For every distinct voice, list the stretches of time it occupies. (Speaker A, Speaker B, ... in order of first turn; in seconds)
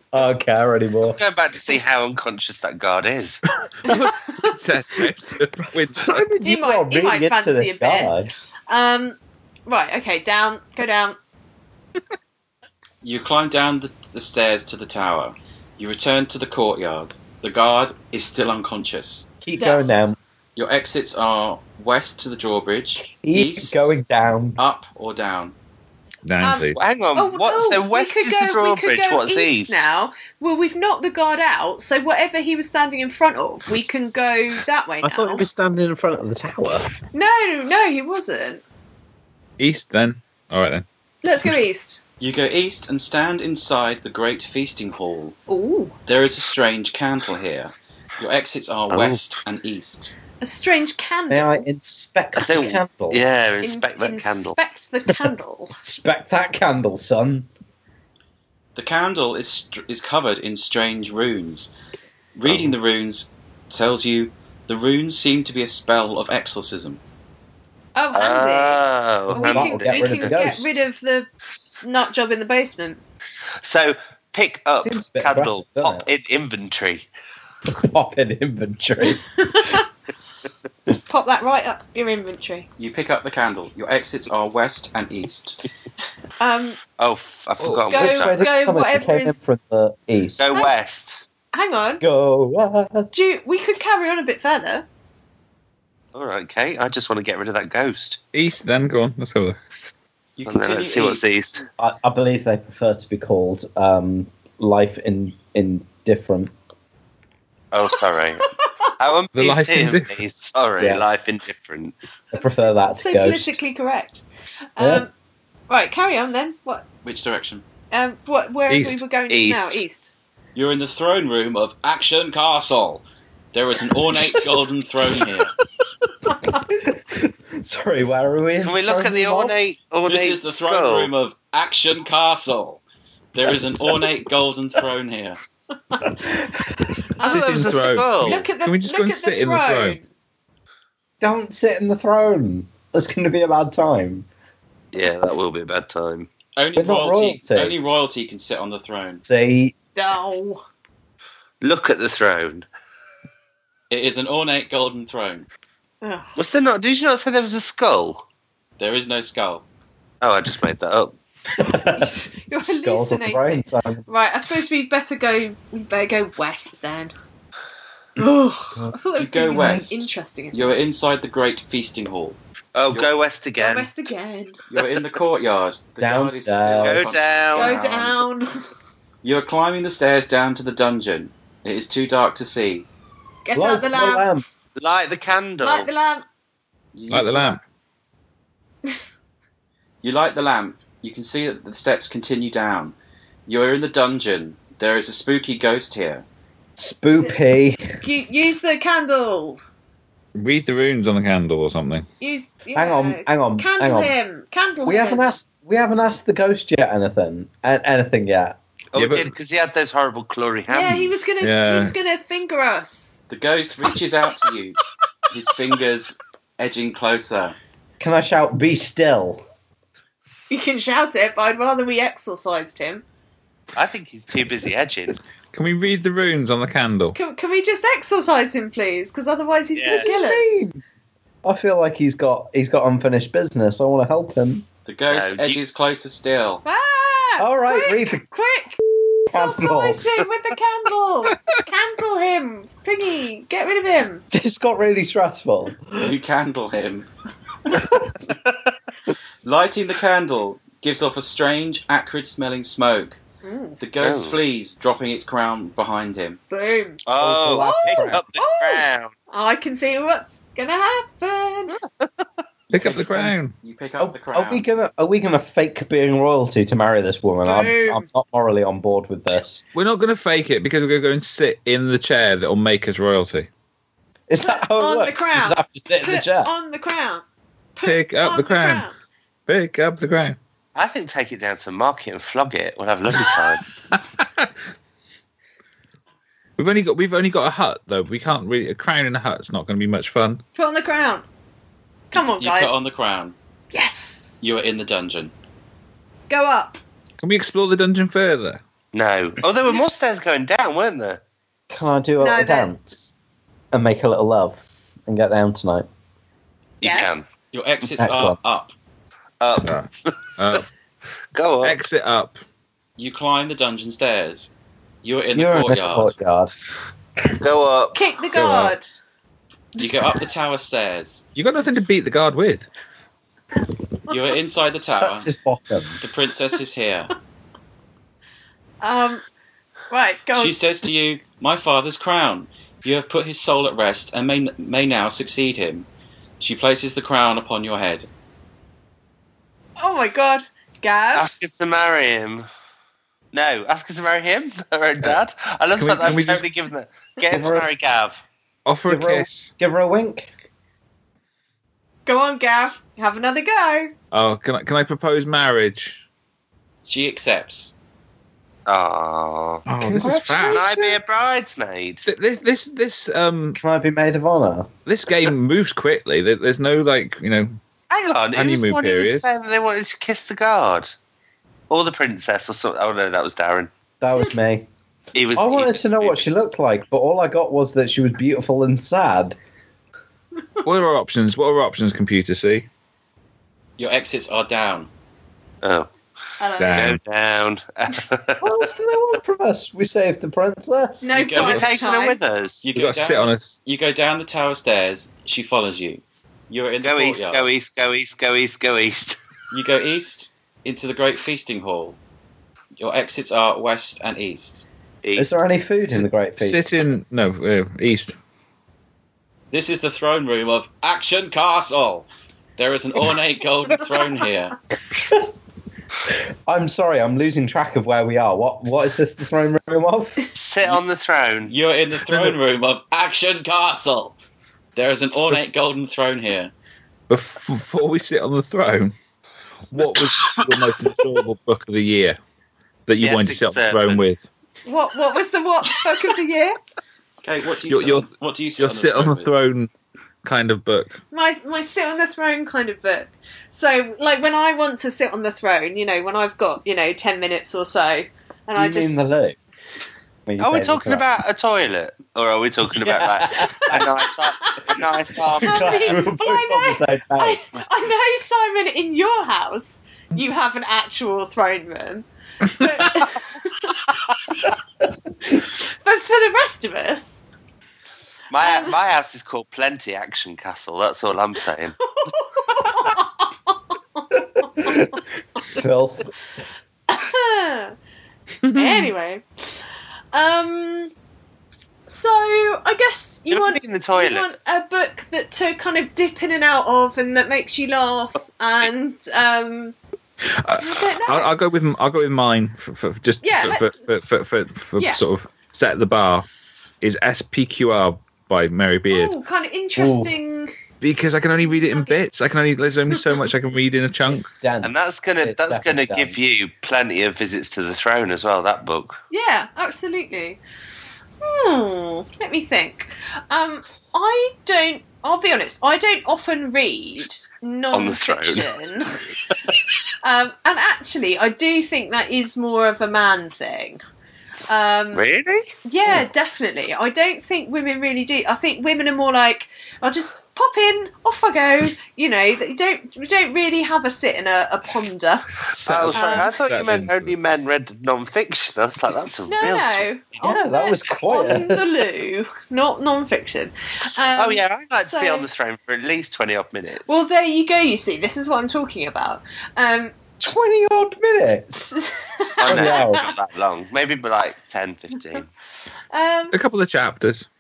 Speaker A: 0.1-1.2, 6.0-8.3, 19.4-20.2, 23.2-24.6, 35.0-36.9, 51.3-53.2, 55.8-57.5, 69.3-70.8, 74.8-76.1, 77.7-79.3, 87.9-90.6, 92.0-93.1, 101.8-106.5, 110.8-111.0, 112.3-113.6, 114.8-115.1, 126.4-129.5, 136.0-137.2, 141.2-144.3, 146.8-147.8, 149.3-149.7, 161.5-164.1, 169.5-169.9, 176.0-177.1, 183.6-184.4, 196.8-198.0, 202.8-204.2, 204.8-208.6, 218.0-219.4, 229.9-230.8, 231.4-234.7, 237.4-238.2, 238.9-240.2, 244.3-246.1, 247.7-248.1, 257.2-258.2, 264.0-269.6, 274.3-276.5, 301.7-303.1, 303.7-305.9, 308.0-308.4, 315.4-316.5, 318.4-318.7, 324.9-326.0, 347.3-347.7, 348.9-350.3, 359.8-361.0, 363.6-364.7, 374.0-374.7, 375.4-379.4, 388.4-391.2, 405.2-406.6, 415.0-415.3, 416.5-420.2, 448.6-449.4, 450.3-451.1, 452.8-453.9, 455.4-457.4, 474.6-476.1, 499.8-500.1, 504.4-506.2, 540.2-541.7, 550.2-551.8, 552.5-553.0
Speaker B: 1.1-3.4, 26.8-29.9, 48.9-49.2, 52.4-54.6, 62.5-62.7, 68.1-70.4, 73.6-77.1, 87.0-88.4, 90.4-91.2, 96.1-98.2, 100.5-101.6, 107.7-108.5, 109.0-112.0, 119.3-119.8, 128.6-131.1, 137.2-138.5, 144.9-146.3, 151.6-152.7, 156.4-158.2, 160.2-161.2, 172.7-173.9, 176.8-177.7, 184.8-185.9, 208.9-211.1, 223.8-225.2, 229.8-230.1, 235.1-235.6, 254.0-254.4, 257.1-259.1, 280.8-283.7, 298.9-301.2, 306.8-307.3, 309.4-310.6, 311.3-311.8, 317.4-318.0, 341.1-342.5, 343.3-348.2, 358.7-359.7, 360.4-362.1, 367.9-370.9, 371.7-373.7, 375.1-376.2, 385.6-385.9, 386.8-388.7, 391.4-392.6, 396.8-399.2, 405.0-405.3, 420.4-421.5, 433.0-434.0, 450.4-456.0, 468.3-471.8, 483.3-484.3, 504.6-509.0, 517.7-518.5, 524.9-525.5, 535.7-539.9, 544.1-547.0, 552.4-555.3
Speaker C: 3.8-6.2, 26.2-26.8, 39.6-40.9, 98.3-99.6, 109.3-110.2, 118.7-119.0, 137.2-140.0, 187.1-187.6, 200.4-202.1, 208.9-209.3, 211.4-211.9, 225.5-227.2, 262.7-263.5, 269.7-273.5, 277.8-278.9, 279.5-280.4, 283.9-284.5, 286.6-290.4, 297.2-298.6, 309.6-310.7, 311.6-312.4, 321.4-322.7, 345.8-346.5, 348.7-349.5, 354.1-356.0, 359.7-360.8, 362.1-363.6, 364.9-367.6, 368.3-369.3, 380.6-382.7, 386.6-387.0, 392.7-393.6, 405.9-408.2, 427.1-428.9, 429.7-432.2, 432.9-434.3, 437.7-439.7, 440.2-441.0, 478.4-478.9, 490.3-496.3, 496.8-499.2, 500.8-504.3, 535.5-537.1, 556.3-557.3
Speaker D: 3.9-4.5, 6.4-8.2, 8.7-11.2, 19.6-19.9, 26.4-35.5, 37.1-38.6, 41.2-42.0, 45.5-46.0, 50.4-51.6, 53.6-55.8, 68.0-71.3, 71.8-73.0, 79.4-79.8, 81.1-82.7, 86.4-86.8, 87.9-89.4, 91.5-92.0, 93.1-94.9, 108.4-108.9, 112.3-114.2, 114.8-115.1, 115.7-116.8, 117.9-120.1, 137.2-140.1, 150.0-150.6, 156.0-156.4, 161.9-167.1, 168.2-170.7, 173.6-174.6, 177.5-178.7, 183.4-184.3, 185.6-186.2, 198.0-199.6, 202.2-205.3, 210.7-213.2, 220.5-223.0, 227.1-230.7, 236.7-244.2, 253.4-253.8, 256.5-257.1, 257.6-261.8, 267.4-268.1, 274.4-277.2, 277.8-278.9, 290.6-291.2, 292.1-292.8, 293.7-294.4, 296.3-296.8, 302.2-302.7, 306.8-307.2, 317.9-318.9, 319.8-320.1, 328.8-329.2, 329.9-330.6, 339.8-341.3, 352.1-353.9, 386.4-386.9, 391.0-392.2, 434.7-436.6, 441.1-449.0, 454.4-454.7, 455.4-463.8, 465.8-467.2, 468.4-468.8, 471.9-474.8, 476.9-477.8, 478.5-479.6, 480.1-480.9, 481.9-489.8, 490.5-491.3, 493.2-493.8, 498.9-500.5, 501.4-503.2, 509.1-510.4, 511.2-519.0, 520.0-523.8, 524.5-525.0, 525.6-535.3, 535.9-536.3, 539.3-545.3, 546.9-549.9, 551.8-553.0, 555.9-556.4
Speaker E: 13.0-19.3, 20.6-23.9, 24.6-25.5, 42.2-45.4, 46.1-50.1, 58.8-61.7, 62.4-67.0, 82.8-85.6, 100.4-101.4, 117.0-117.6, 120.5-125.5, 130.1-132.8, 133.3-135.4, 146.6-149.2, 153.9-155.5, 158.8-159.6, 169.2-172.4, 174.7-178.2, 179.2-182.9, 186.9-187.6, 190.0-193.0, 193.5-196.2, 213.3-217.6, 234.9-236.6, 246.0-247.1, 249.4-253.2, 253.8-256.4, 262.7-264.6, 292.2-293.4, 294.4-295.3, 307.5-308.7, 313.0-314.5, 315.0-316.2, 319.8-321.2, 324.1-325.3, 326.0-327.1, 330.4-335.9, 336.4-338.1, 356.9-357.7, 383.8-384.9, 391.2-391.6, 392.6-397.5, 399.5-402.0, 402.8-404.6, 409.5-412.1, 412.6-414.6, 421.5-424.2, 424.8-426.5, 437.2-439.3